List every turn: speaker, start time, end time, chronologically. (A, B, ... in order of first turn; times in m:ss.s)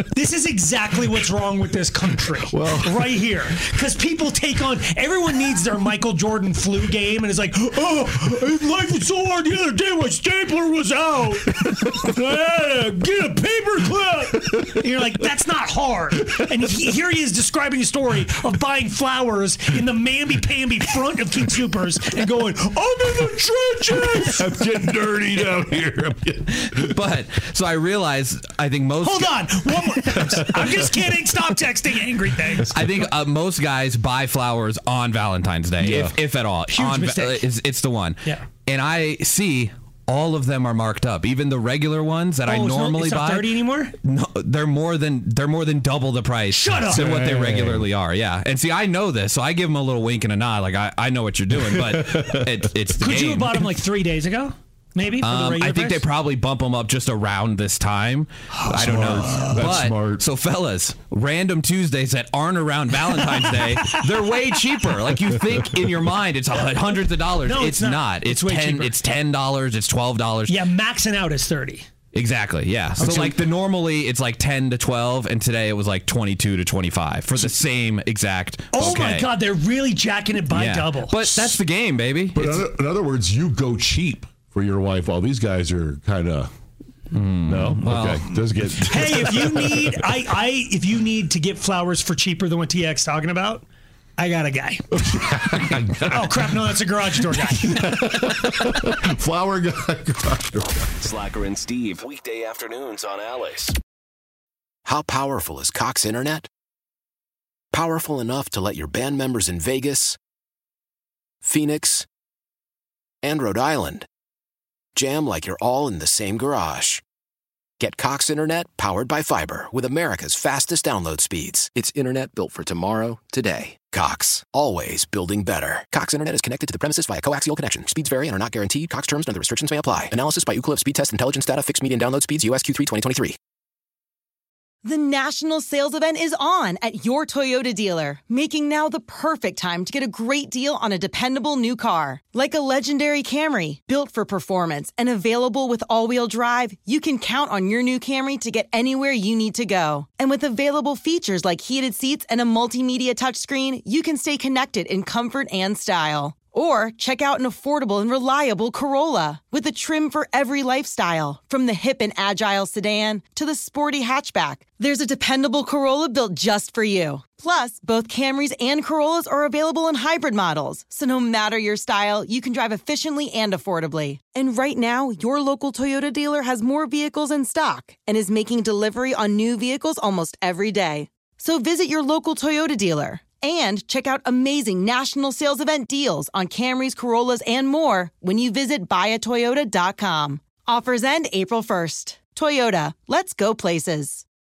0:00.1-0:24.4 A
0:02.4-0:03.4 B
0:23.9-0:27.0 B
0:26.8-0:30.2 C
0:29.0-0:33.0 A
0:30.2-0:31.1 B
0:32.7-0:53.7 C
0:35.8-0:36.2 B
0:36.7-0:37.4 A
0:42.5-0:43.9 A
0:46.5-0:47.0 A
0:46.9-0:47.9 B
0:51.5-0:52.7 B
0:53.0-0:56.0 A
0:55.2-1:10.6 C
0:58.5-0:59.6 A
0:58.7-1:00.2 B
1:03.0-1:04.0 A
1:07.4-1:09.0 A
1:10.5-1:11.8 A
1:12.1-1:19.4 C
1:13.0-1:13.4 A
1:18.7-1:21.2 A
1:20.5-1:22.6 C
1:21.2-1:21.6 B
1:22.3-1:26.5 B
1:27.1-1:28.3 C
1:27.4-1:29.9 B
1:28.9-1:33.6 A
1:34.2-1:34.8 A
1:34.9-1:40.9 B
1:36.1-1:38.1 A
1:41.0-1:43.6 D
1:44.8-1:46.5 E
1:47.7-1:50.2 E
1:51.4-1:52.0 E
1:53.2-1:54.1 E
1:55.0-1:57.0 E
1:57.8-2:13.4 E
2:14.8-3:14.2 F